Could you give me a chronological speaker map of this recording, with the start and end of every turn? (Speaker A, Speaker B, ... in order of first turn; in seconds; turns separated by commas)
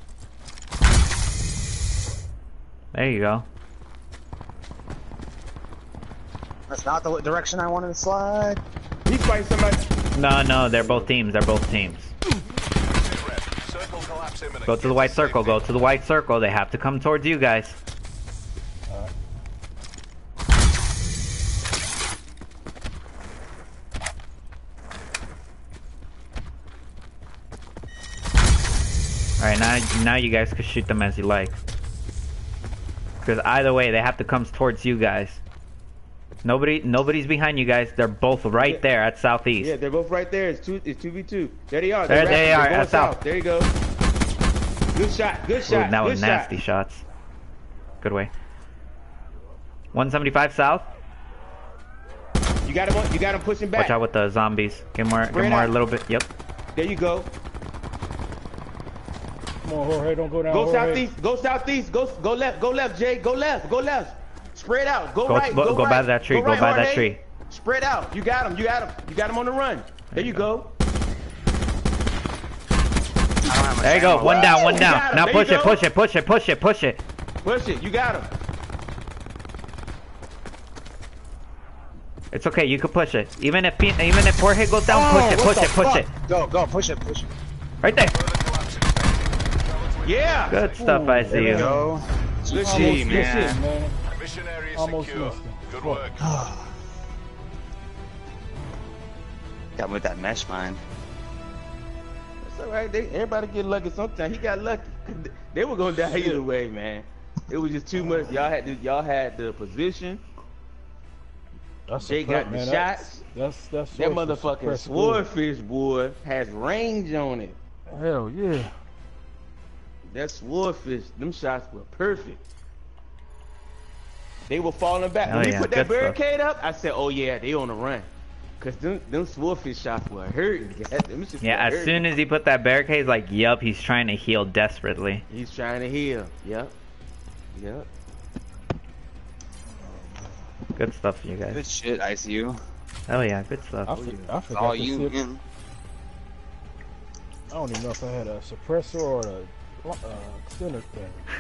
Speaker A: 2.9-3.5, Speaker B: 6.7-8.6, Speaker C: 9.1-9.8, Speaker A: 10.2-12.1, Speaker C: 10.7-11.1, Speaker D: 12.8-15.7, Speaker A: 14.7-17.8, Speaker A: 29.4-31.6, Speaker A: 33.2-35.4, Speaker A: 36.4-39.7, Speaker C: 38.6-38.9, Speaker C: 39.6-43.7, Speaker A: 42.1-43.2, Speaker C: 44.9-46.6, Speaker A: 45.6-47.0, Speaker A: 48.0-48.3, Speaker A: 49.9-50.9, Speaker C: 52.6-54.0, Speaker A: 53.8-56.3, Speaker C: 55.3-55.8, Speaker C: 56.7-57.3, Speaker E: 59.6-61.1, Speaker C: 60.5-70.7, Speaker A: 65.3-67.2, Speaker A: 70.1-70.5, Speaker B: 73.5-74.9, Speaker A: 73.8-77.0, Speaker C: 74.2-75.8, Speaker C: 77.4-78.3, Speaker A: 82.3-86.1, Speaker B: 84.9-87.3, Speaker A: 87.8-88.1, Speaker D: 88.0-91.1, Speaker C: 90.0-90.6, Speaker A: 90.5-91.8, Speaker E: 90.8-91.9, Speaker B: 91.3-93.6, Speaker C: 92.5-93.4, Speaker E: 92.5-94.0, Speaker D: 94.1-96.3, Speaker E: 94.8-96.0, Speaker B: 96.2-96.7, Speaker B: 99.8-100.8, Speaker C: 102.4-110.2, Speaker E: 111.9-115.3, Speaker C: 112.0-113.2, Speaker C: 113.9-117.6, Speaker E: 117.9-118.7, Speaker C: 120.1-122.4, Speaker C: 124.5-128.1, Speaker A: 125.2-126.2, Speaker C: 128.6-132.1, Speaker A: 131.4-135.2, Speaker C: 135.3-136.7, Speaker C: 137.5-137.9, Speaker E: 139.8-140.4, Speaker A: 140.8-141.6, Speaker B: 141.5-142.6, Speaker A: 143.1-144.2, Speaker E: 143.9-145.2, Speaker B: 144.5-145.4, Speaker E: 147.5-151.3